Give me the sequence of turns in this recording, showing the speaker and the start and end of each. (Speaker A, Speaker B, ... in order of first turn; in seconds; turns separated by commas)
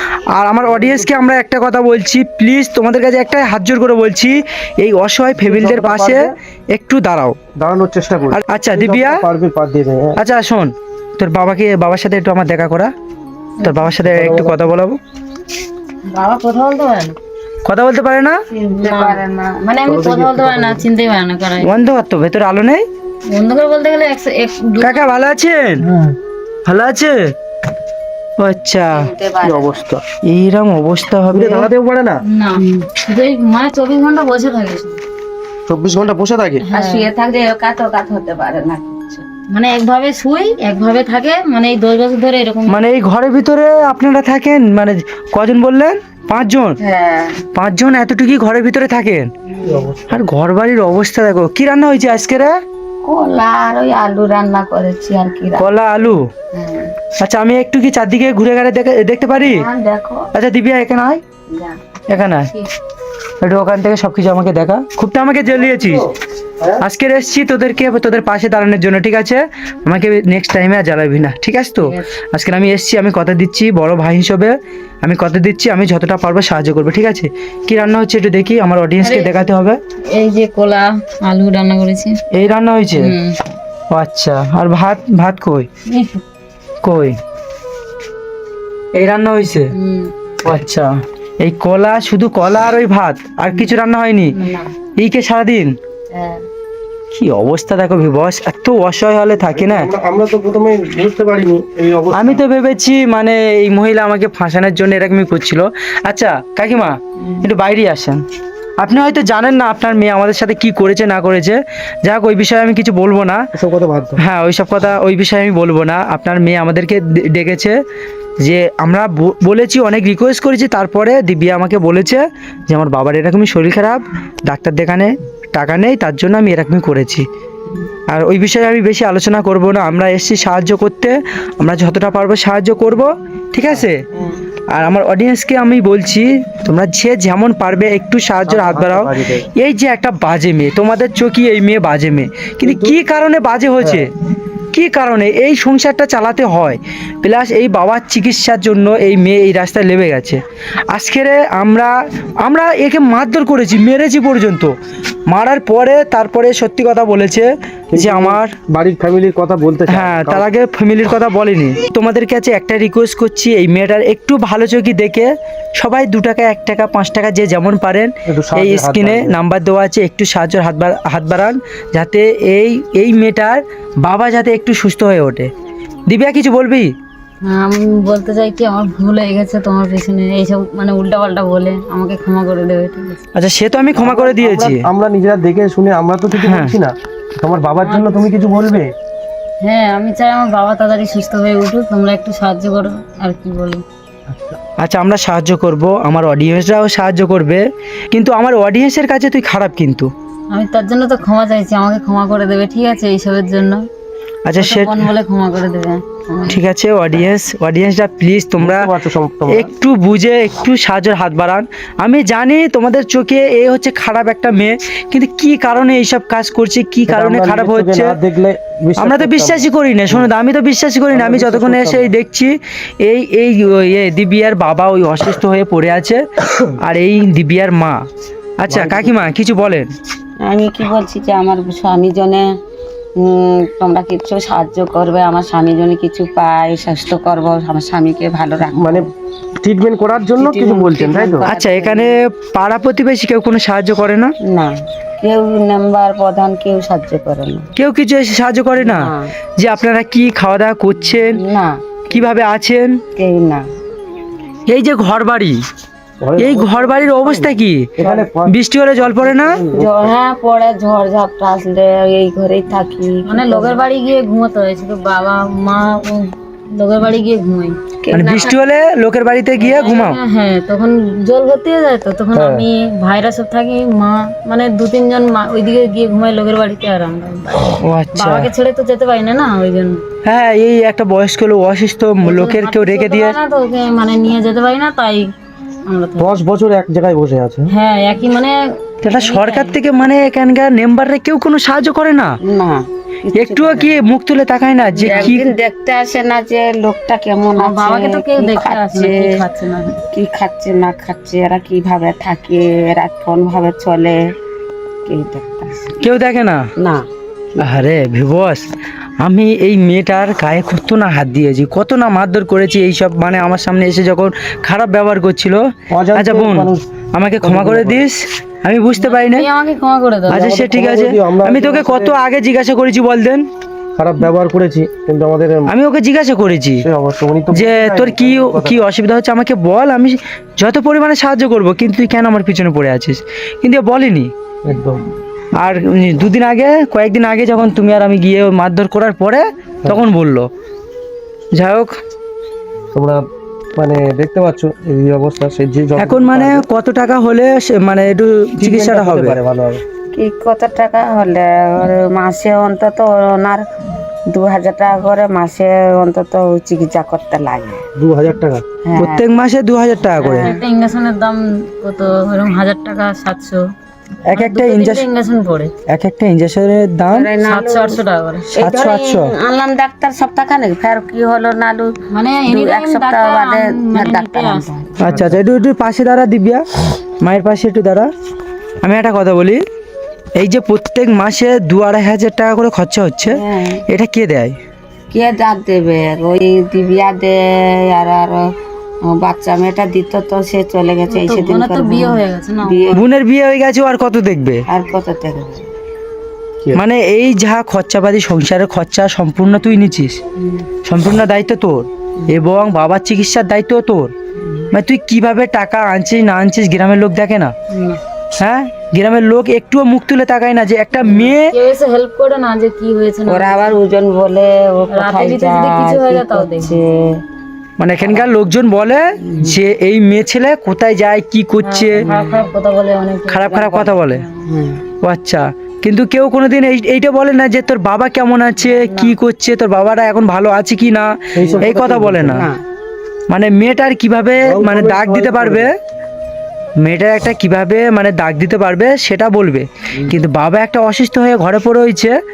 Speaker A: 0.3-7.4, Speaker B: 0.7-1.0, Speaker B: 5.4-6.3, Speaker B: 7.5-10.2, Speaker A: 8.3-9.2, Speaker A: 10.2-12.9, Speaker C: 13.6-13.9, Speaker A: 13.6-15.0, Speaker B: 14.1-14.6, Speaker C: 16.1-17.2, Speaker A: 17.6-18.4, Speaker D: 18.5-19.6, Speaker C: 18.8-21.8, Speaker B: 19.9-20.8, Speaker A: 21.6-22.9, Speaker C: 23.3-24.9, Speaker A: 24.8-25.9, Speaker B: 25.9-26.1, Speaker A: 26.6-27.3, Speaker A: 28.4-29.1, Speaker D: 28.9-29.8, Speaker B: 29.4-30.0, Speaker A: 30.2-31.7, Speaker B: 31.3-32.2, Speaker C: 32.3-35.0, Speaker B: 35.7-36.6, Speaker C: 36.6-37.1, Speaker D: 36.6-39.2, Speaker C: 39.5-42.8, Speaker A: 42.7-46.8, Speaker D: 46.8-47.4, Speaker A: 47.5-49.3, Speaker D: 49.5-49.9, Speaker B: 49.6-50.2, Speaker A: 50.1-52.6, Speaker D: 53.0-56.9, Speaker A: 55.6-56.2, Speaker A: 57.2-59.6, Speaker D: 59.4-60.3, Speaker A: 60.3-61.2, Speaker D: 61.5-61.8, Speaker A: 62.1-62.5, Speaker A: 63.4-66.1, Speaker B: 65.5-66.1, Speaker A: 66.8-79.8, Speaker C: 79.0-79.5, Speaker C: 80.1-82.2, Speaker A: 82.3-83.1, Speaker C: 83.0-83.4, Speaker A: 83.9-85.7, Speaker C: 85.9-86.2, Speaker A: 86.8-87.2, Speaker A: 88.9-89.7, Speaker C: 89.7-90.1, Speaker A: 90.4-90.9, Speaker A: 91.4-94.3, Speaker C: 94.3-94.7, Speaker A: 95.0-95.7, Speaker D: 96.1-96.4, Speaker A: 97.1-99.9, Speaker B: 99.5-102.4, Speaker A: 102.1-108.2, Speaker A: 108.8-113.5, Speaker B: 113.5-114.2, Speaker A: 114.2-117.8, Speaker A: 118.4-127.2, Speaker A: 128.1-134.0, Speaker D: 134.2-134.4, Speaker A: 134.7-144.1, Speaker B: 138.4-139.5, Speaker B: 142.6-142.9, Speaker B: 143.8-144.1, Speaker A: 144.7-154.7, Speaker A: 155.3-158.5, Speaker B: 157.9-160.5, Speaker A: 159.9-175.5, Speaker B: 168.2-169.3, Speaker A: 176.1-176.9, Speaker C: 177.4-183.2, Speaker A: 183.3-184.8, Speaker B: 183.9-188.9, Speaker A: 186.4-186.8, Speaker C: 187.8-188.6, Speaker C: 189.6-193.8, Speaker B: 194.3-194.6, Speaker A: 194.8-200.1, Speaker C: 200.5-203.8, Speaker A: 204.4-205.1, Speaker C: 204.6-206.6, Speaker A: 206.5-208.9, Speaker B: 208.6-209.7, Speaker A: 209.5-218.2, Speaker B: 217.1-220.3, Speaker A: 219.0-226.2, Speaker B: 221.1-222.1, Speaker A: 226.8-228.0, Speaker A: 228.6-229.9, Speaker B: 228.7-229.2, Speaker D: 230.4-232.4, Speaker D: 233.2-239.1, Speaker B: 238.7-239.1, Speaker B: 239.6-241.4, Speaker D: 240.4-242.1, Speaker A: 241.5-244.3, Speaker D: 244.4-247.7, Speaker A: 247.8-251.4, Speaker D: 248.8-249.3, Speaker D: 251.3-252.3, Speaker A: 252.1-253.0, Speaker D: 253.2-253.6, Speaker A: 254.7-255.6, Speaker B: 256.2-260.1, Speaker A: 256.4-259.6, Speaker D: 259.7-263.8, Speaker C: 263.2-267.8, Speaker D: 268.0-268.5, Speaker A: 268.1-270.2, Speaker C: 269.6-280.0, Speaker B: 272.3-272.6, Speaker A: 277.8-278.5, Speaker A: 280.2-283.4, Speaker C: 282.2-285.3, Speaker C: 285.9-286.4, Speaker B: 286.2-287.7, Speaker C: 287.7-289.8, Speaker A: 289.0-292.4, Speaker D: 292.4-294.0, Speaker A: 293.3-295.4, Speaker C: 295.0-295.4, Speaker D: 295.0-299.3, Speaker C: 297.6-300.0, Speaker D: 300.1-304.2, Speaker D: 305.1-306.0, Speaker A: 306.0-306.7, Speaker D: 306.8-307.0, Speaker A: 307.6-308.7, Speaker A: 309.2-319.5, Speaker B: 315.9-316.8, Speaker B: 317.4-318.1, Speaker C: 319.0-320.4, Speaker B: 320.3-322.2, Speaker A: 320.3-323.5, Speaker B: 323.9-325.7, Speaker A: 325.7-326.8, Speaker B: 326.8-328.8, Speaker A: 327.5-334.3, Speaker B: 334.6-335.1, Speaker A: 335.5-340.5, Speaker A: 341.5-341.9, Speaker B: 342.9-343.2, Speaker B: 343.8-346.6, Speaker A: 346.0-349.4, Speaker B: 348.6-349.8, Speaker D: 350.1-353.6, Speaker D: 354.3-357.8, Speaker B: 357.9-358.6, Speaker D: 358.8-359.2, Speaker A: 358.9-360.5, Speaker D: 360.2-360.6, Speaker C: 360.2-363.7, Speaker A: 364.2-365.0, Speaker C: 364.3-365.7, Speaker A: 365.9-367.3, Speaker D: 367.1-371.9, Speaker C: 367.4-368.5, Speaker A: 368.5-369.3, Speaker C: 372.1-374.6, Speaker D: 372.4-375.1, Speaker A: 375.0-376.6, Speaker B: 375.1-375.4, Speaker A: 377.2-378.1, Speaker A: 378.8-379.6, Speaker A: 380.4-384.5, Speaker D: 383.2-383.8, Speaker D: 385.1-388.4, Speaker D: 389.1-393.0, Speaker C: 391.1-393.0, Speaker A: 392.9-394.6, Speaker D: 394.7-395.7, Speaker A: 396.7-400.2, Speaker A: 400.8-404.1, Speaker A: 404.7-407.5, Speaker C: 407.7-408.0, Speaker A: 408.4-411.5, Speaker C: 411.1-413.8, Speaker D: 413.3-417.2, Speaker C: 414.9-416.7, Speaker A: 417.8-422.1, Speaker D: 418.0-418.4, Speaker D: 419.2-419.6, Speaker C: 421.6-423.5, Speaker D: 422.0-422.4, Speaker A: 423.3-424.2, Speaker D: 423.5-424.8, Speaker A: 425.0-432.5, Speaker C: 428.6-429.1, Speaker B: 431.3-432.4, Speaker D: 431.4-431.7, Speaker D: 432.2-432.6, Speaker A: 433.3-435.7, Speaker B: 434.4-435.7, Speaker A: 436.8-442.1